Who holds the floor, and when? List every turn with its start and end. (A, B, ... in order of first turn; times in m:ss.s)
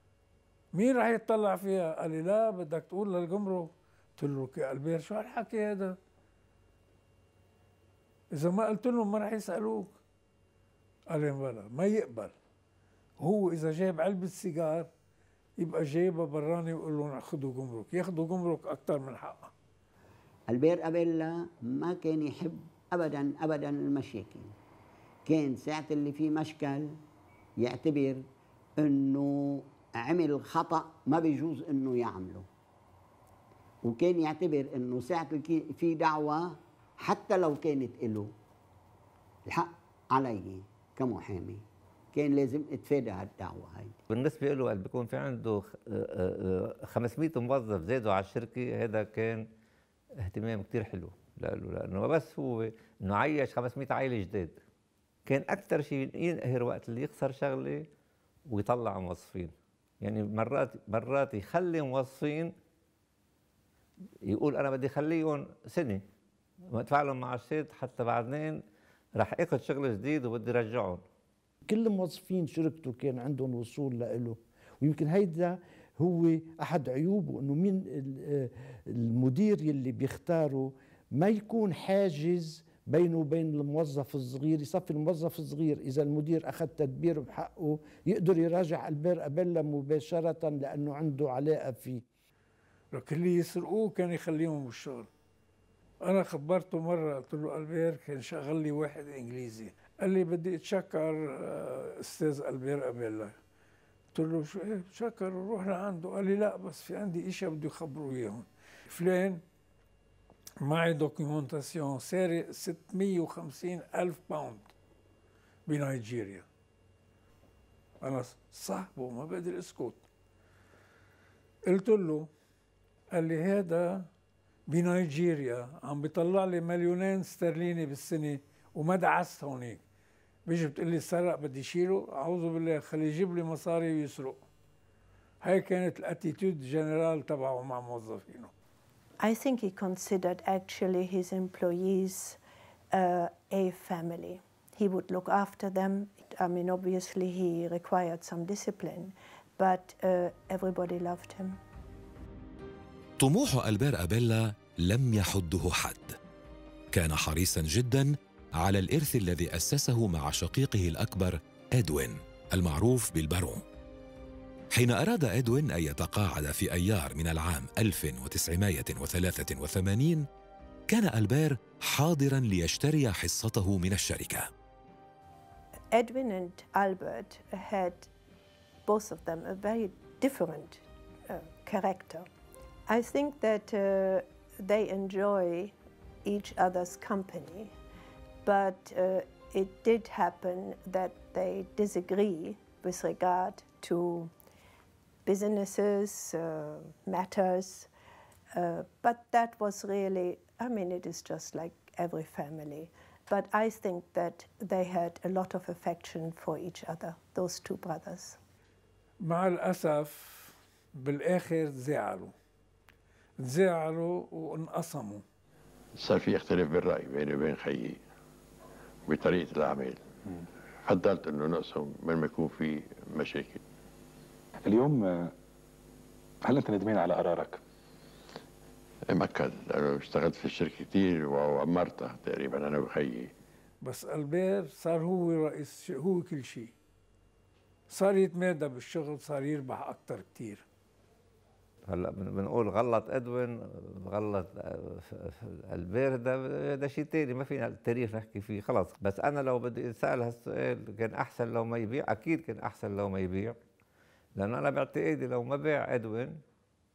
0:00.7-0:06.0 A
0:08.3-0:10.0 A
0:11.1-0:12.3 A
0:13.2-0:14.9 A
0:15.6-0:19.5 A
0:20.5-0:24.5 B
0:25.3-0:27.0 B
0:27.6-0:28.2 B
0:28.8-0:32.5 B
0:33.8-0:38.3 B
0:39.5-0:44.0 B
0:44.1-0:49.4 C
0:50.2-0:54.6 C
0:55.3-0:57.9 C
0:58.5-1:02.5 C
1:04.2-1:06.0 C
1:06.7-1:08.6 C
1:09.2-1:11.0 C
1:11.7-1:32.0 D
1:32.9-1:35.1 A
1:36.0-1:43.3 A
1:44.1-1:49.4 A
1:50.6-1:54.7 A
1:55.7-1:56.5 A
1:58.0-2:00.0 A
2:01.6-2:02.3 A
2:03.1-2:04.1 A
2:04.7-2:09.8 A
2:10.5-2:14.4 A
2:15.4-2:18.5 A
2:19.2-2:22.4 E
2:22.9-2:31.6 E
2:33.2-2:36.2 F
2:36.9-2:43.6 F
2:44.7-2:50.2 F
2:50.9-2:54.5 F
2:55.9-2:58.1 E
2:58.9-3:02.3 E
3:02.9-3:07.7 E
3:08.4-3:14.3 E
3:15.3-3:17.9 E
3:18.5-3:28.4 E
3:29.2-3:32.3 A
3:33.4-3:35.2 A
3:36.0-3:38.0 G
3:39.1-3:40.0 G
3:40.9-3:43.6 G
3:44.6-3:45.3 H
3:46.4-3:47.6 H
3:49.1-3:53.3 G
3:53.8-3:56.7 A
3:57.9-4:00.6 A
4:01.9-4:13.6 C
4:14.4-4:16.4 C